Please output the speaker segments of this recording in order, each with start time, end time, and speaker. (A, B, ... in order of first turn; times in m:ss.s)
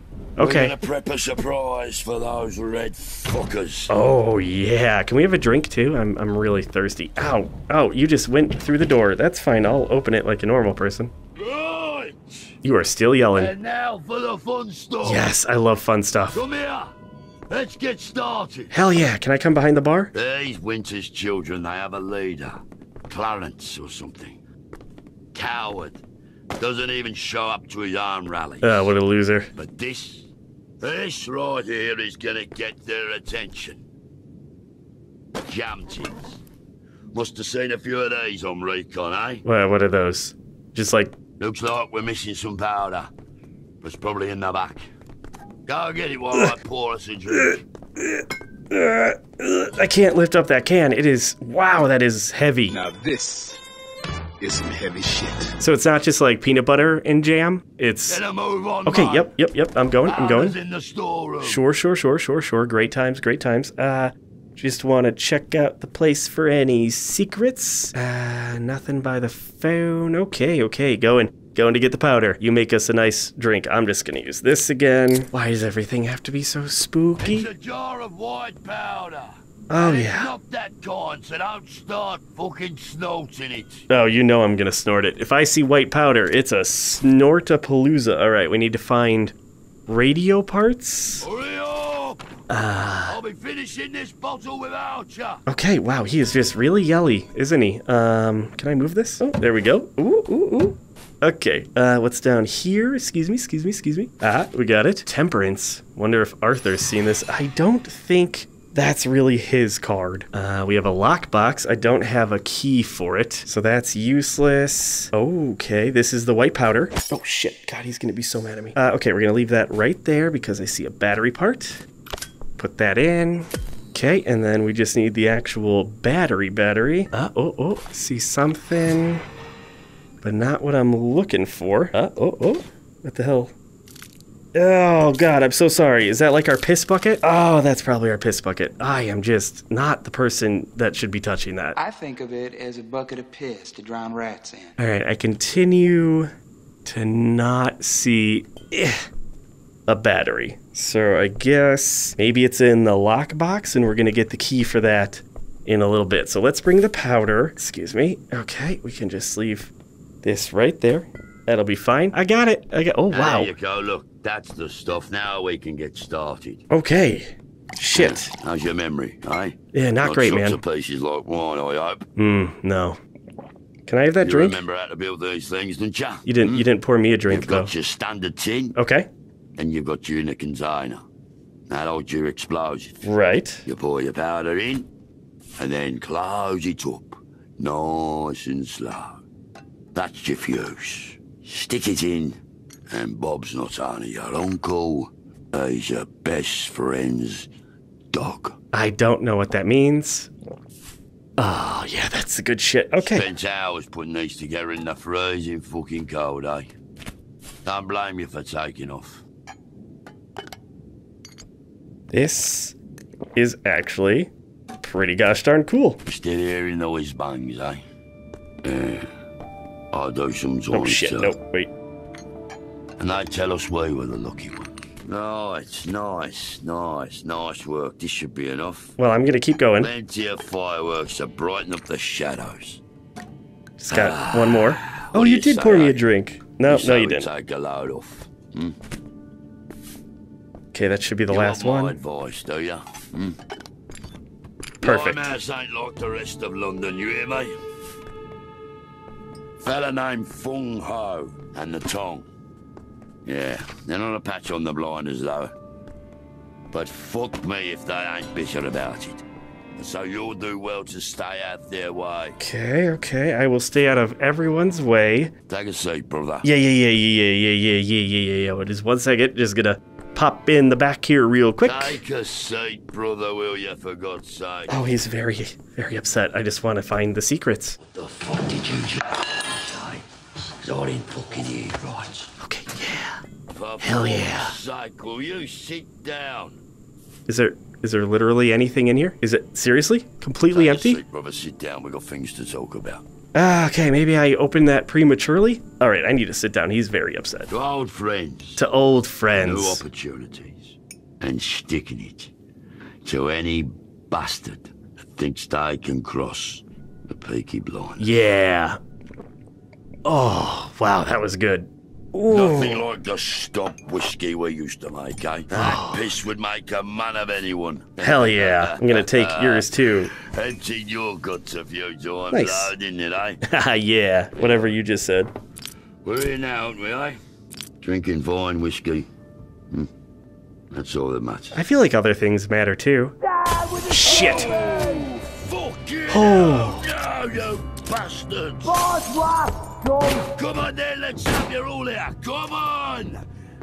0:00.4-0:00.8 A
0:00.4-0:03.9 B
0:03.9-0:11.1 A
0:11.4-0:12.5 B
0:12.6-0:13.5 A
0:13.4-0:15.3 B
0:15.0-0:16.4 A
0:16.3-0:16.9 B
0:17.5-0:18.8 B
0:18.7-0:20.1 A
0:20.1-0:24.4 B
0:25.3-0:26.0 B
0:26.6-0:28.9 B
0:28.6-0:29.5 A
0:29.6-0:30.3 B
0:30.8-0:33.8 B
0:35.5-0:36.4 B
0:37.1-0:39.4 B
0:39.4-0:41.2 A
0:41.4-0:43.1 B
0:43.8-0:44.9 B
0:45.7-0:47.6 B
0:47.3-0:52.8 A
0:52.7-0:53.6 C
0:54.4-0:55.6 C
0:55.6-0:58.2 A
0:58.1-0:59.3 B
0:58.9-1:00.6 A
1:00.1-1:01.6 B
1:01.4-1:17.5 A
1:17.2-1:23.9 B
1:19.7-1:20.3 A
1:23.9-1:29.4 A
1:29.9-1:31.3 A
1:31.2-1:32.2 B
1:32.5-1:33.2 A
1:33.1-1:35.4 B
1:35.5-2:01.8 A
2:02.6-2:09.2 A
2:10.2-2:13.5 A
2:14.5-2:21.8 A
2:21.8-2:24.8 D
2:24.8-2:26.3 A
2:26.8-2:29.1 A
2:29.9-2:39.7 A
2:40.2-2:43.5 A
2:43.1-2:46.6 B
2:46.7-2:48.3 A
2:48.0-2:52.0 B
2:49.7-2:50.6 A
2:52.2-2:53.0 A
2:53.9-2:54.6 A
2:54.2-2:56.7 B
2:56.2-2:57.7 A
2:57.3-2:58.8 B
2:58.8-2:59.1 A
2:59.6-3:01.0 B
3:01.7-3:03.1 B
3:03.0-3:03.6 A
3:03.6-3:04.9 B
3:05.6-3:09.2 B
3:10.0-3:12.4 B
3:12.9-3:17.5 B
3:18.1-3:18.6 B
3:18.7-3:20.3 A
3:21.4-3:23.2 A
3:23.0-3:26.7 B
3:27.6-3:29.2 B
3:32.1-3:32.8 A
3:33.4-3:36.0 A
3:36.1-3:37.8 B
3:38.6-3:39.1 B
3:39.9-3:41.3 B
3:40.7-3:41.7 A
3:43.0-3:48.9 B
3:49.0-3:49.9 A
3:49.8-3:52.8 B
3:53.8-3:57.3 A
3:53.9-3:56.0 B
3:56.6-3:58.8 B
4:00.7-4:02.0 A
4:01.3-4:03.4 B
4:04.8-4:07.6 B
4:04.8-4:05.2 A
4:09.6-4:12.3 B
4:13.2-4:15.5 B
4:16.7-4:19.2 B
4:19.8-4:22.4 B
4:22.4-4:25.3 A
4:25.5-4:26.5 B
4:26.4-4:32.0 A
4:31.6-4:34.8 B
4:34.7-4:37.8 A
4:37.9-4:40.0 B
4:40.6-4:42.3 B
4:42.4-4:43.2 A
4:43.5-4:46.6 B
4:43.8-4:44.6 A
4:47.3-4:51.0 A
4:50.5-4:53.1 B
4:53.4-4:57.5 A
4:57.5-4:58.6 B
4:58.6-4:59.8 A
4:59.4-5:02.3 B
5:03.0-5:08.1 B
5:08.0-5:08.8 A
5:10.0-5:12.8 A
5:12.3-5:23.4 B
5:15.5-5:16.1 A
5:18.0-5:20.1 A
5:22.3-5:22.7 A
5:23.4-5:25.3 A
5:26.0-5:27.2 B
5:27.8-5:29.1 B
5:30.7-5:31.6 B
5:31.5-5:33.1 A
5:33.5-5:43.2 B
5:33.9-5:34.6 A
5:36.1-5:36.9 A